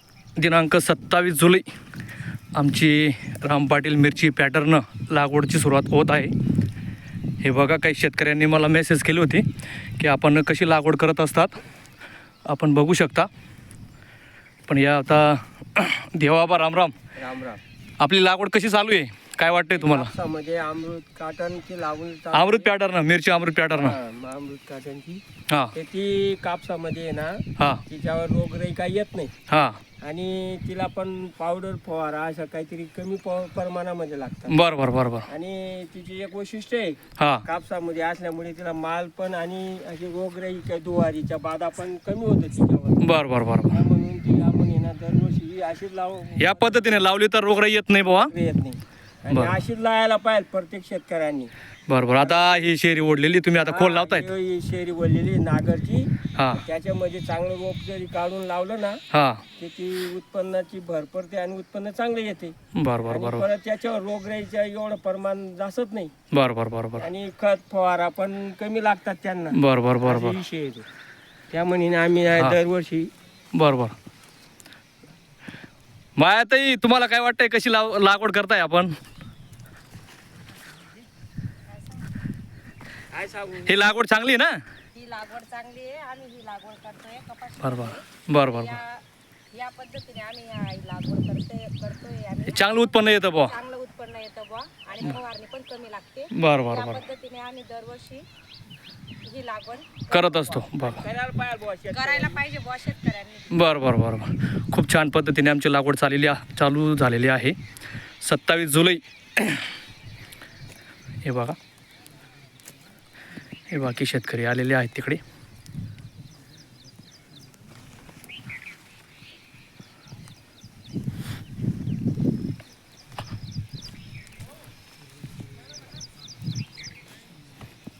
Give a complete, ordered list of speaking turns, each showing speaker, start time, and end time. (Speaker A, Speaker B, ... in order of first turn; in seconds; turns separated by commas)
Speaker A: 0.4-1.7, Speaker A: 2.5-6.3, Speaker A: 7.4-9.4, Speaker A: 10.0-11.6, Speaker A: 12.4-13.3, Speaker A: 14.7-16.9, Speaker B: 17.1-17.6, Speaker A: 18.0-20.1, Speaker B: 19.7-22.7, Speaker A: 22.3-24.0, Speaker B: 23.7-25.2, Speaker B: 25.7-29.3, Speaker A: 29.5-29.8, Speaker B: 30.0-34.6, Speaker A: 34.5-35.3, Speaker B: 35.3-43.1, Speaker A: 37.2-37.4, Speaker A: 43.0-43.8, Speaker B: 43.7-47.1, Speaker A: 46.4-48.3, Speaker B: 48.1-51.5, Speaker A: 51.9-54.3, Speaker B: 52.2-52.6, Speaker B: 53.6-59.0, Speaker A: 56.4-56.6, Speaker A: 59.1-59.4, Speaker B: 59.6-62.5, Speaker A: 62.7-63.5, Speaker B: 63.0-66.1, Speaker A: 66.3-67.1, Speaker B: 67.0-70.8, Speaker A: 69.5-70.4, Speaker B: 71.5-73.1, Speaker A: 73.5-73.9, Speaker A: 76.2-78.9, Speaker C: 81.7-82.0, Speaker B: 83.1-83.8, Speaker A: 83.7-84.5, Speaker C: 84.9-98.2, Speaker A: 87.6-88.8, Speaker A: 92.5-93.5, Speaker A: 96.3-97.0, Speaker C: 99.2-100.7, Speaker A: 100.1-101.0, Speaker B: 100.8-102.4, Speaker C: 101.9-103.7, Speaker A: 103.5-107.5, Speaker A: 108.2-109.7, Speaker A: 111.2-111.5, Speaker A: 113.7-115.2